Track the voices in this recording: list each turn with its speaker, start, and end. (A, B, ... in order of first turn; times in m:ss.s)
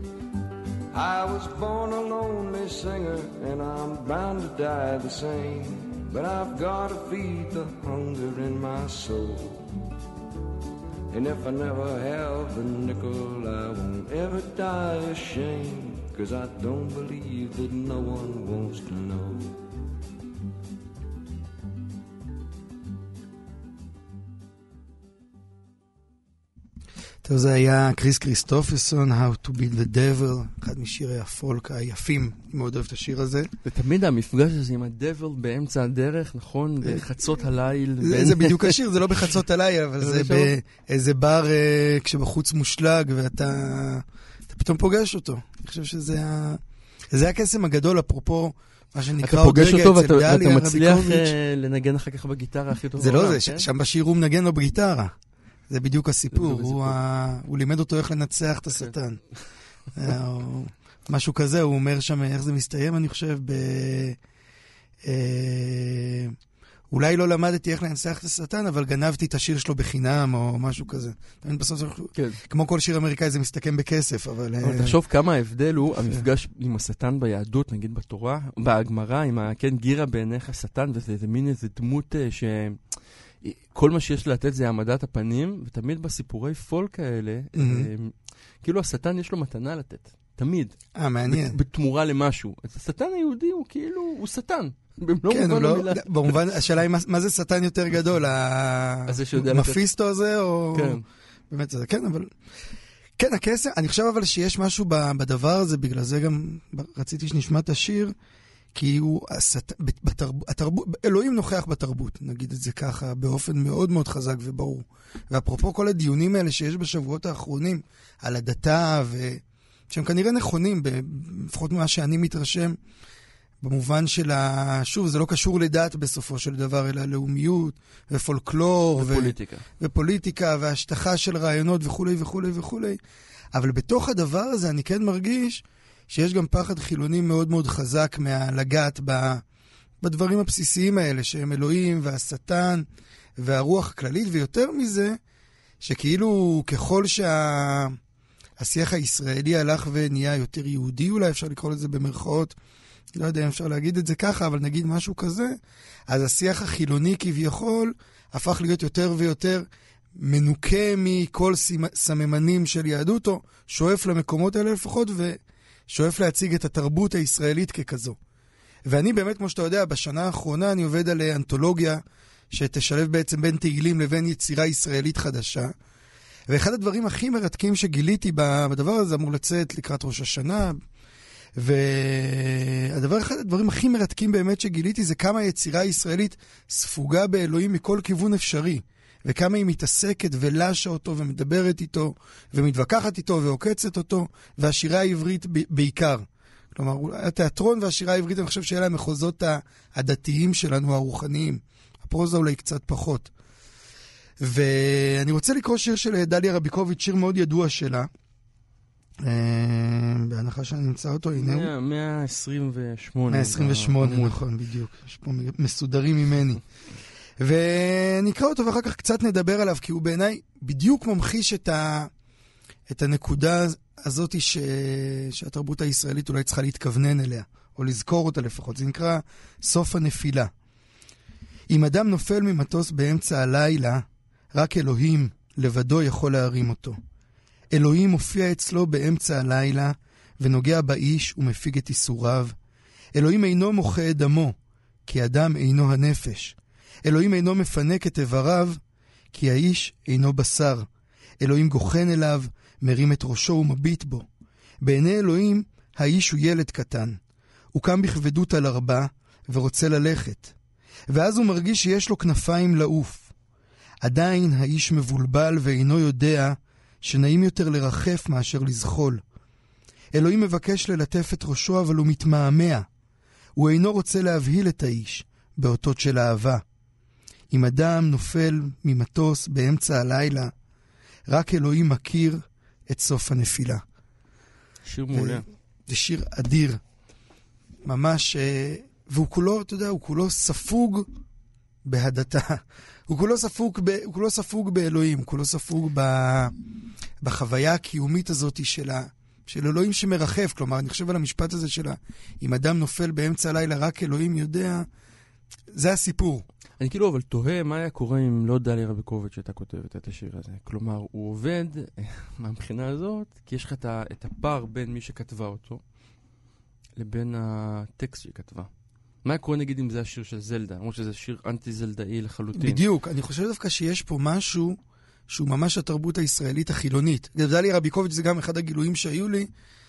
0:00.9-0:09.6 A
0:11.1-0:19.6 A
0:27.2-0:33.5 B
0:33.6-0:38.8 C
0:38.0-0:51.3 B
0:40.0-0:40.5 C
0:49.2-0:53.7 C
0:53.0-0:55.1 B
0:55.7-0:59.2 B
0:56.3-0:57.0 C
1:00.0-1:04.2 B
1:05.0-1:06.4 B
1:06.9-1:15.0 B
1:12.1-1:12.4 C
1:14.6-1:36.4 C
1:27.5-1:27.9 B
1:30.9-1:31.6 B
1:35.3-1:42.3 B
1:39.1-1:39.8 C
1:40.7-1:41.0 C
1:43.2-1:48.1 B
1:48.7-2:02.8 B
2:03.6-2:13.0 B
2:09.0-2:09.6 C
2:13.5-2:19.4 B
2:20.0-2:22.8 B
2:23.4-2:25.2 B
2:25.8-2:28.0 B
2:28.6-2:32.6 B
2:33.1-2:39.6 B
2:40.2-2:48.2 B
2:48.8-2:55.7 B
2:56.5-3:00.8 B
3:01.6-3:23.3 B
3:24.4-3:28.1 B
3:29.2-3:31.7 B
3:31.3-3:34.4 C
3:33.3-3:36.6 B
3:37.4-3:42.1 B
3:42.9-3:50.5 B
3:51.7-3:57.0 B
3:57.7-4:02.5 B
4:03.1-4:04.6 B
4:05.1-4:08.8 B
4:09.3-4:10.9 B
4:11.4-4:14.2 B
4:14.8-4:17.2 B
4:17.7-4:20.5 B
4:21.1-4:23.3 B
4:24.0-4:29.2 B
4:30.1-4:32.8 B
4:33.6-4:36.6 B
4:37.5-4:40.5 B
4:41.3-4:43.8 B
4:44.8-4:45.4 C
4:45.1-4:46.8 B
4:47.8-4:51.1 B
4:51.8-4:56.5 B
4:57.2-5:04.9 B
5:05.7-5:06.4 B
5:06.8-5:15.8 C
5:17.0-5:18.7 C
5:19.2-5:22.8 C
5:22.5-5:29.5 B